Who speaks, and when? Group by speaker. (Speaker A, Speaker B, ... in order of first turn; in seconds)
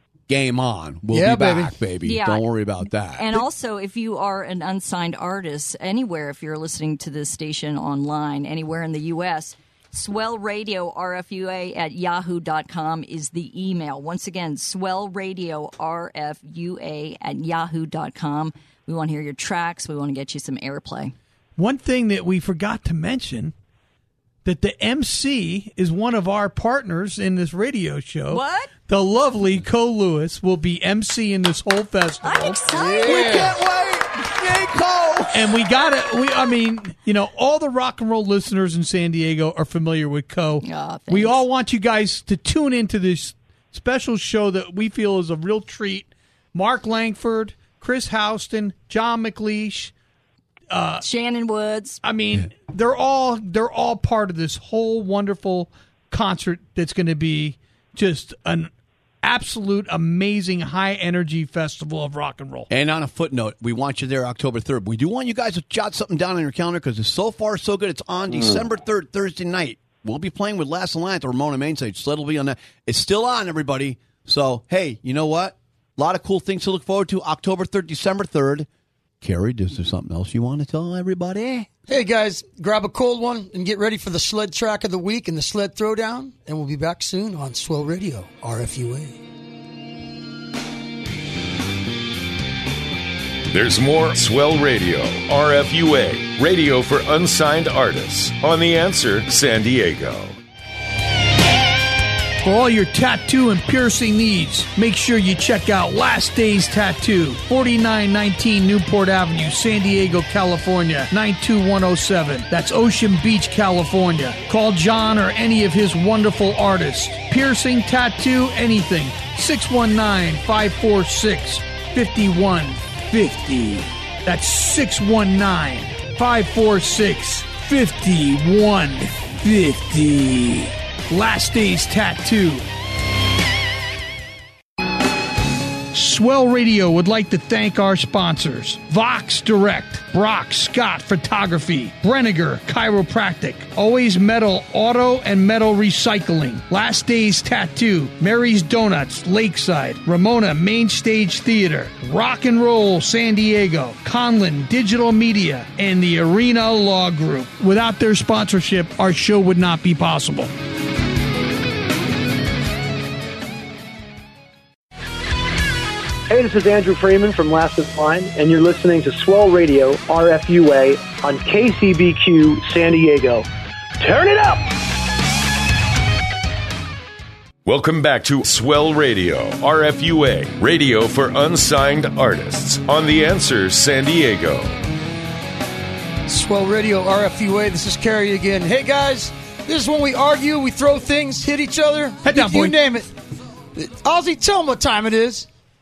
Speaker A: 0.3-3.5, 32.8-35.5, 62.7-78.7, 79.2-81.7
Speaker B: 1.1-1.8, 32.7-33.6, 81.9-89.2, 186.3-193.1, 193.8-195.5
Speaker C: 2.0-21.1, 28.3-28.7, 32.2-33.6, 40.6-41.4, 51.0-52.0
Speaker D: 21.6-23.5, 24.4-32.6, 35.3-49.9, 50.7-51.0, 52.0-58.7, 59.2-62.7, 102.4-132.7, 135.9-160.5, 192.2-192.8
Speaker E: 93.5-100.4, 177.7-184.7
Speaker F: 166.3-173.4, 174.0-174.6